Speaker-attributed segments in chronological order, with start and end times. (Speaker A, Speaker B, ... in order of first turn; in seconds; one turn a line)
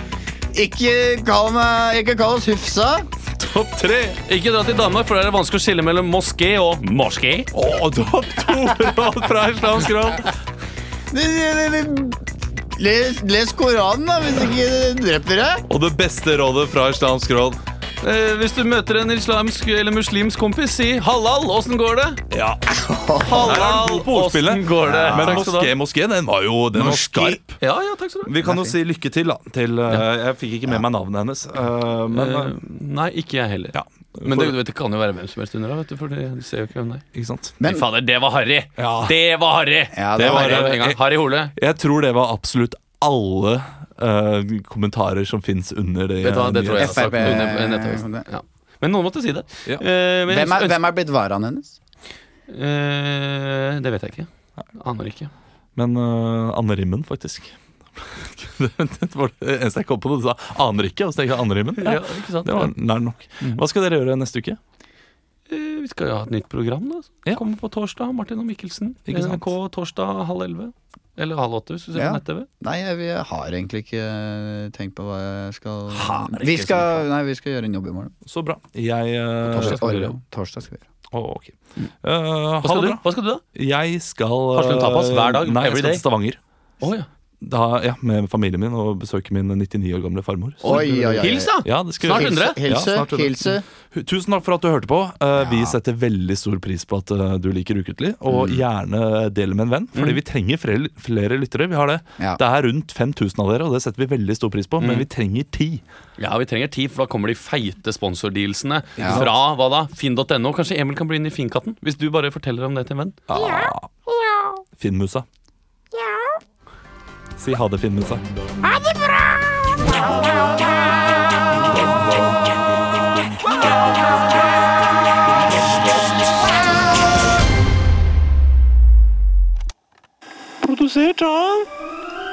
Speaker A: 0.5-3.1
Speaker B: 3.4-4.2
Speaker C: 4.2-7.5
Speaker B: 7.5-10.3
Speaker A: 11.1-15.6
Speaker B: 15.7-17.6
Speaker C: 18.0-22.2
Speaker B: 22.3-22.6
Speaker A: 22.7-23.6
Speaker C: 23.2-25.7
Speaker B: 23.2-27.6
Speaker A: 24.8-25.5
Speaker A: 26.7-27.4
Speaker C: 27.6-28.3
Speaker B: 28.2-32.5
Speaker A: 28.4-28.8
Speaker C: 32.1-37.0
Speaker B: 33.7-34.5
Speaker B: 37.1-37.5
Speaker A: 37.6-37.8
Speaker C: 37.6-41.5
Speaker B: 38.8-39.1
Speaker A: 39.9-40.8
Speaker B: 40.1-41.0
Speaker B: 41.5-47.5
Speaker C: 46.2-50.8
Speaker A: 46.8-48.2
Speaker A: 50.3-51.8
Speaker C: 52.5-55.3
Speaker B: 55.8-64.6
Speaker C: 61.8-62.7
Speaker C: 65.5-72.5
Speaker B: 69.1-69.4
Speaker A: 71.9-78.1
Speaker C: 75.9-77.0
Speaker B: 78.2-79.8
Speaker A: 79.5-80.8
Speaker C: 79.5-80.1
Speaker B: 81.1-83.0
Speaker C: 82.6-83.4
Speaker B: 83.5-86.4
Speaker C: 84.5-86.0
Speaker C: 86.8-87.1
Speaker B: 87.4-105.8
Speaker C: 90.6-92.6
Speaker A: 90.6-93.6
Speaker A: 95.5-95.7
Speaker A: 98.3-98.6
Speaker C: 104.8-105.1
Speaker C: 106.2-113.2
Speaker A: 109.0-109.3
Speaker B: 109.0-109.3
Speaker B: 113.3-113.9
Speaker B: 114.8-115.2
Speaker B: 117.4-118.2
Speaker B: 130.6-131.7